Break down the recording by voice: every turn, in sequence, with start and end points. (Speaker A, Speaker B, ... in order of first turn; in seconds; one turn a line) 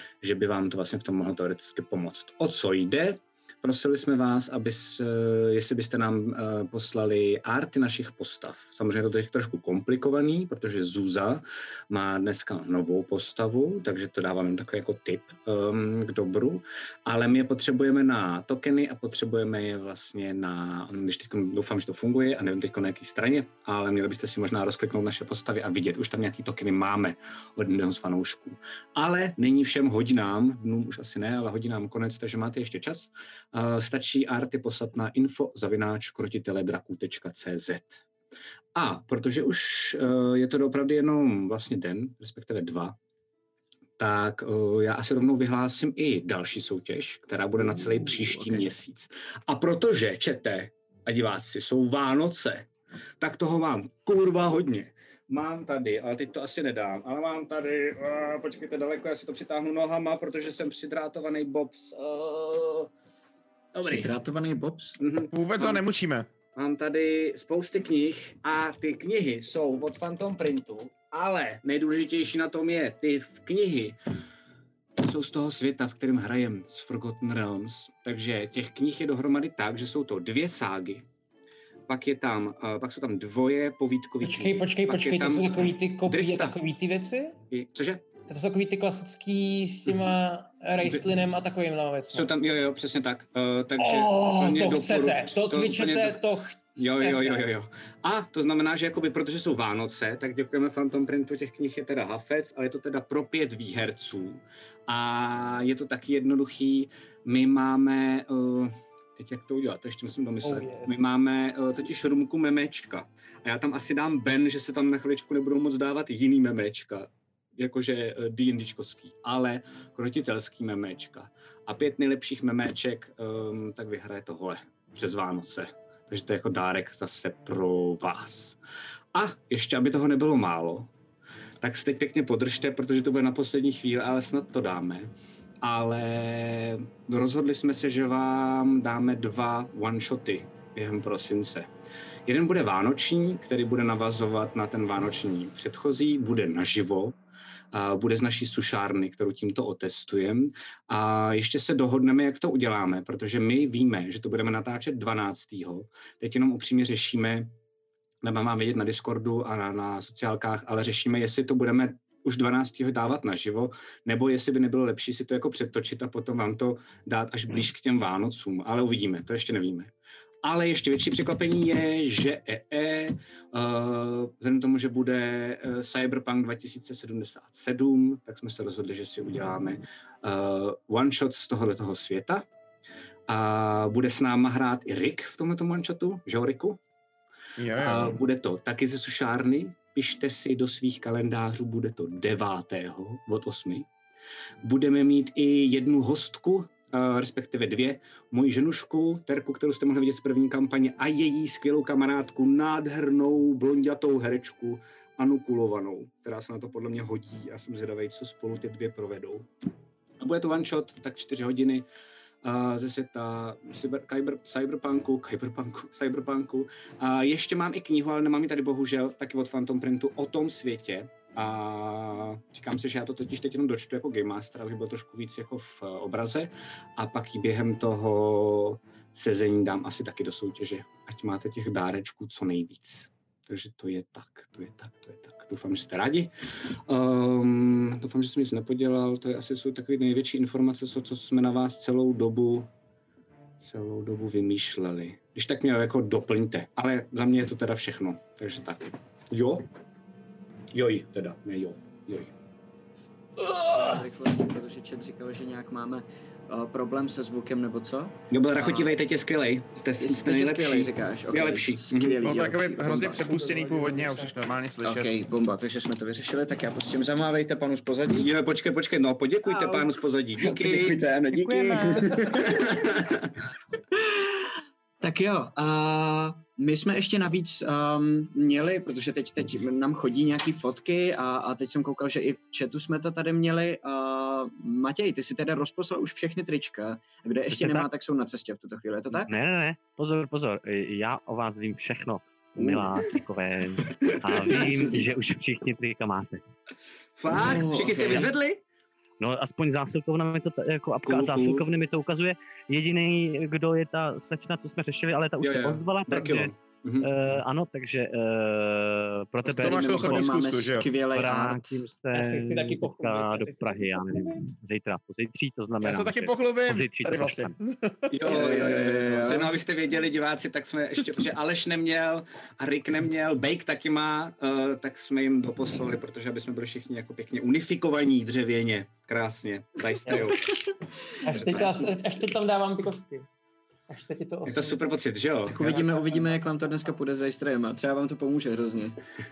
Speaker A: 0.2-38.0
Speaker A: 38.8-43.0
Speaker A: 44.0-52.7
Speaker A: 53.2-62.9
Speaker A: 63.7-64.1
Speaker B: 63.8-65.0
Speaker A: 65.0-65.8
Speaker C: 65.3-66.3
Speaker A: 66.5-74.0
Speaker A: 75.0-81.1
Speaker A: 81.9-86.6
Speaker D: 84.2-87.4
Speaker A: 87.5-88.0
Speaker D: 88.3-92.3
Speaker A: 90.8-91.1
Speaker A: 92.1-96.2
Speaker D: 93.8-97.5
Speaker A: 96.8-128.6
Speaker D: 110.4-111.0
Speaker A: 129.1-130.9
Speaker A: 131.6-141.7
Speaker A: 142.3-147.2
Speaker A: 147.7-157.5
Speaker A: 158.2-169.9
Speaker A: 170.4-182.4
Speaker A: 183.3-186.8
Speaker C: 187.6-188.2
Speaker A: 187.8-193.9
Speaker A: 194.6-209.5
Speaker A: 210.2-211.9
Speaker A: 212.4-236.3
Speaker A: 236.9-242.7
Speaker A: 243.6-249.7
Speaker A: 250.7-252.3
Speaker B: 253.6-258.9
Speaker A: 258.3-262.2
Speaker B: 260.0-264.2
Speaker C: 262.2-265.1
Speaker B: 264.8-268.3
Speaker A: 268.1-271.0
Speaker B: 269.4-272.6
Speaker A: 271.9-273.3
Speaker B: 273.9-274.5
Speaker B: 275.0-289.3
Speaker E: 287.5-287.9
Speaker E: 289.2-296.4
Speaker A: 292.6-293.2
Speaker A: 294.0-295.1
Speaker A: 297.2-298.6
Speaker B: 297.3-298.3
Speaker E: 299.2-310.3
Speaker A: 301.1-301.6
Speaker A: 305.4-307.1
Speaker C: 309.4-310.9
Speaker B: 309.6-311.8
Speaker E: 311.1-317.5
Speaker D: 312.1-314.5
Speaker C: 315.8-318.0
Speaker A: 318.1-330.6
Speaker B: 318.2-319.5
Speaker D: 331.2-333.3
Speaker B: 331.3-331.9
Speaker A: 331.3-331.9
Speaker D: 333.9-334.8
Speaker A: 334.5-336.4
Speaker B: 335.5-339.0